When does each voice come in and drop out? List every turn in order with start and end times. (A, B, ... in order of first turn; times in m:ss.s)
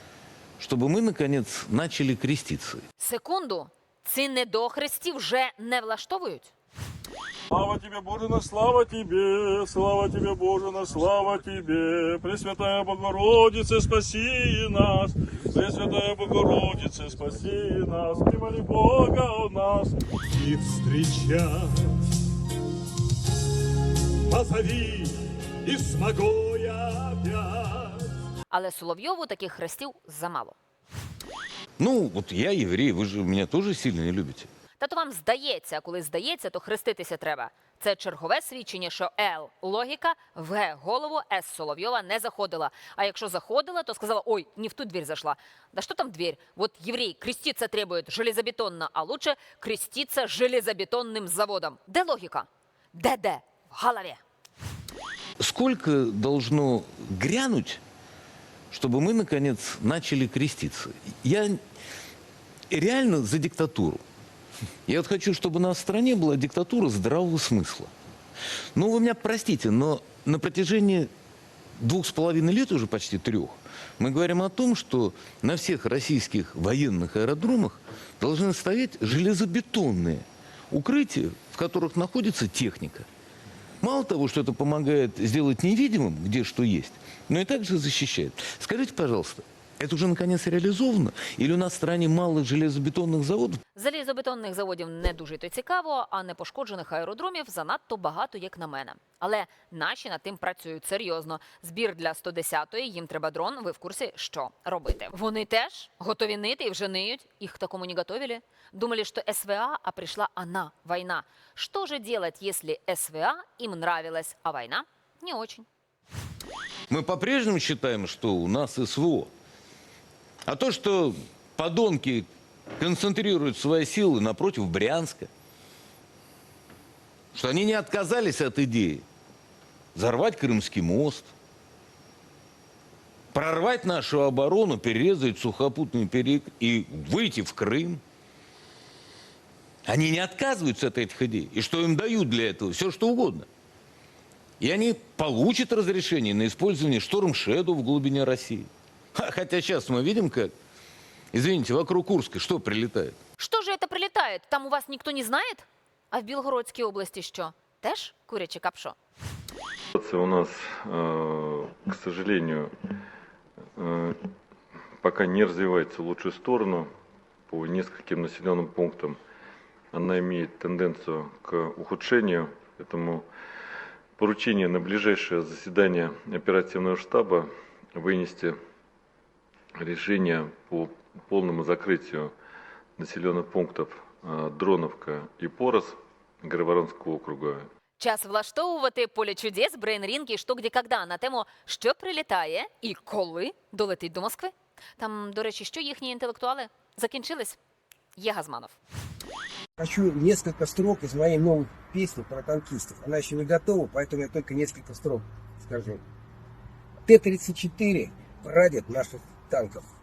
0:00.6-0:02.8 A
0:03.0-0:06.5 B
0:07.5-0:22.0 C
0:24.3-0:28.0 C
0:28.5-0:30.6 B
0:31.8-0:34.5 A
0:34.8-0:54.2 B
0:55.4-0:57.8 A
0:58.7-1:01.6 A
1:02.7-1:04.0 A
1:04.9-1:07.9 A
1:08.8-1:11.1 A
1:11.8-1:23.1 A
1:23.8-1:33.6 A
1:33.8-1:55.7 B
1:56.9-1:59.3 A
2:00.5-2:02.3 A
2:02.8-2:05.3 A
2:07.3-2:09.0 A
2:10.0-2:11.3 A
2:13.3-2:18.0 A
2:19.9-2:23.5 A
2:24.6-2:30.5 A
2:31.3-2:33.2 A
2:33.4-2:39.0 B
2:39.9-2:42.9 D
2:43.8-2:44.3 D
2:45.0-2:46.9 D
2:47.5-2:49.2 D
2:49.9-2:53.3 D
2:54.2-2:58.6 D
2:59.8-3:02.4 D
3:03.0-3:07.7 D
3:08.0-3:17.6 B
3:18.2-3:18.8 B
3:19.8-3:26.0 E
3:27.1-3:29.9 E